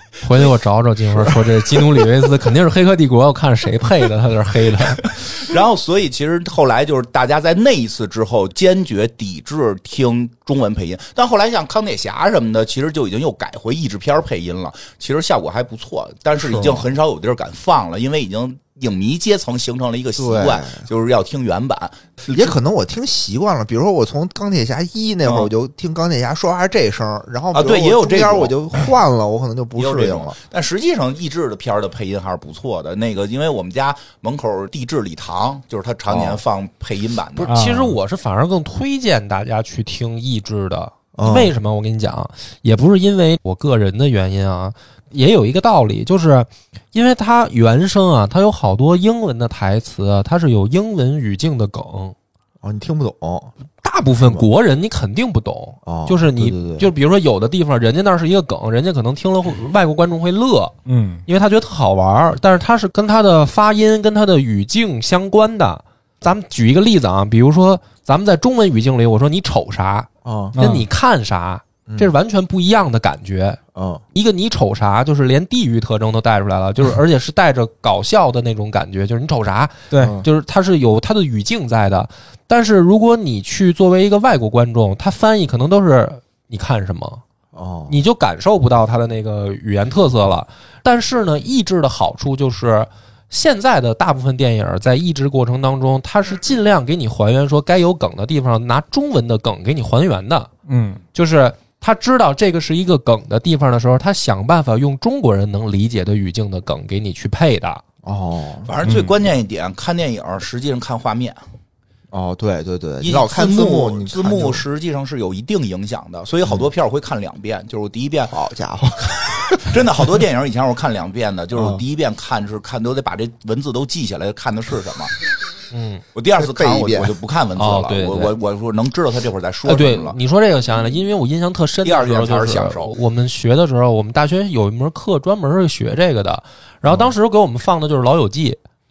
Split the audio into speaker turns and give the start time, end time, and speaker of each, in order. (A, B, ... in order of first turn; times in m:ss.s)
0:00.2-0:05.0 A
0:01.1-0:02.1 B
0:05.0-0:22.5 B
0:16.4-0:16.9 C
0:20.2-0:20.8 C
0:22.3-0:30.4 C
0:27.5-0:28.5 B
0:29.8-0:37.5 B
0:36.1-0:36.4 C
0:37.4-0:52.1 A
0:37.5-0:38.0 D
0:41.1-0:41.5 C
0:52.6-0:53.5 C
0:53.8-1:00.7 A
0:55.8-0:56.9 C
1:00.8-1:01.2 D
1:01.2-1:13.6 A
1:10.2-1:10.6 C
1:10.5-1:10.8 D
1:11.9-1:12.1 C
1:13.7-1:14.0 C
1:14.1-1:27.2 A
1:19.9-1:20.2 D
1:20.0-1:20.2 C
1:27.5-1:28.0 C
1:27.9-1:40.5 A
1:40.7-1:41.0 D
1:41.1-1:47.8 A
1:48.0-1:48.7 C
1:48.6-1:51.4 B
1:48.8-1:49.1 D
1:52.1-1:54.6 C
1:53.0-1:58.3 B
1:58.3-2:00.1 C
1:59.6-2:05.1 B
2:01.5-2:01.8 C
2:05.7-2:06.0 A
2:06.1-2:10.2 B
2:06.4-2:07.1 C
2:07.6-2:08.3 A
2:09.6-2:18.6 A
2:11.8-2:12.9 B